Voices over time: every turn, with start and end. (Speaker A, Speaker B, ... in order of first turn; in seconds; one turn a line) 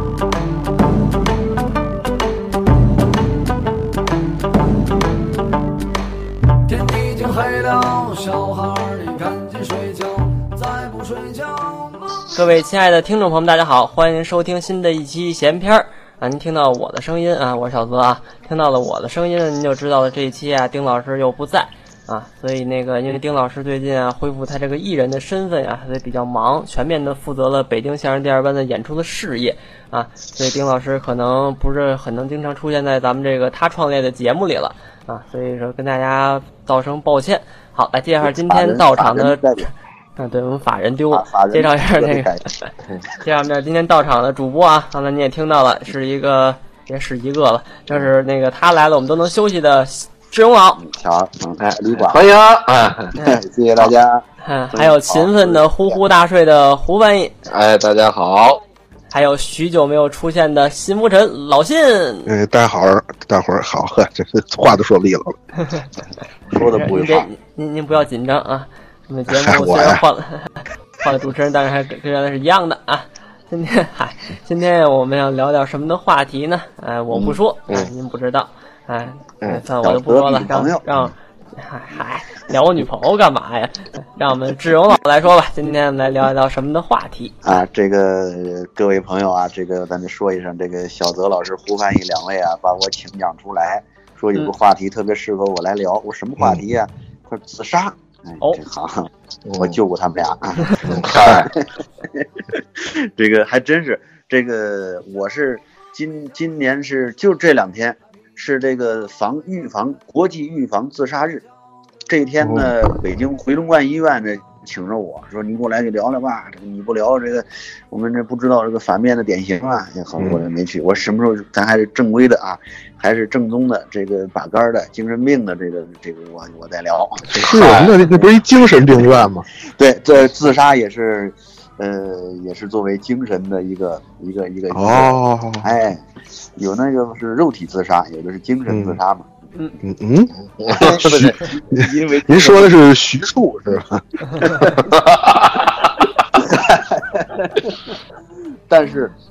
Speaker A: 6.7-12.3
Speaker B: 12.3-42.3
Speaker C: 38.2-39.7
Speaker C: 41.1-42.4
Speaker B: 43.2-50.8
Speaker C: 50.8-52.2
Speaker D: 51.6-53.1
Speaker C: 53.1-56.0
Speaker B: 54.4-57.3
Speaker D: 57.5-58.6
Speaker B: 59.1-62.3
Speaker E: 62.3-65.3
Speaker C: 66.5-67.3
Speaker B: 66.7-87.5
Speaker E: 69.3-70.0
Speaker C: 79.8-80.8
Speaker C: 87.4-111.5
Speaker D: 99.5-99.8
Speaker D: 100.9-101.5
Speaker C: 112.1-127.5
Speaker E: 112.4-112.9
Speaker E: 120.2-120.4
Speaker E: 127.3-129.5
Speaker D: 127.3-128.0
Speaker C: 129.8-139.3
Speaker E: 134.7-135.7
Speaker E: 138.7-139.0
Speaker E: 139.8-140.3
Speaker D: 140.6-141.3
Speaker C: 140.7-142.7
Speaker E: 141.7-144.8
Speaker D: 144.8-146.0
Speaker C: 146.4-147.7
Speaker C: 148.7-149.1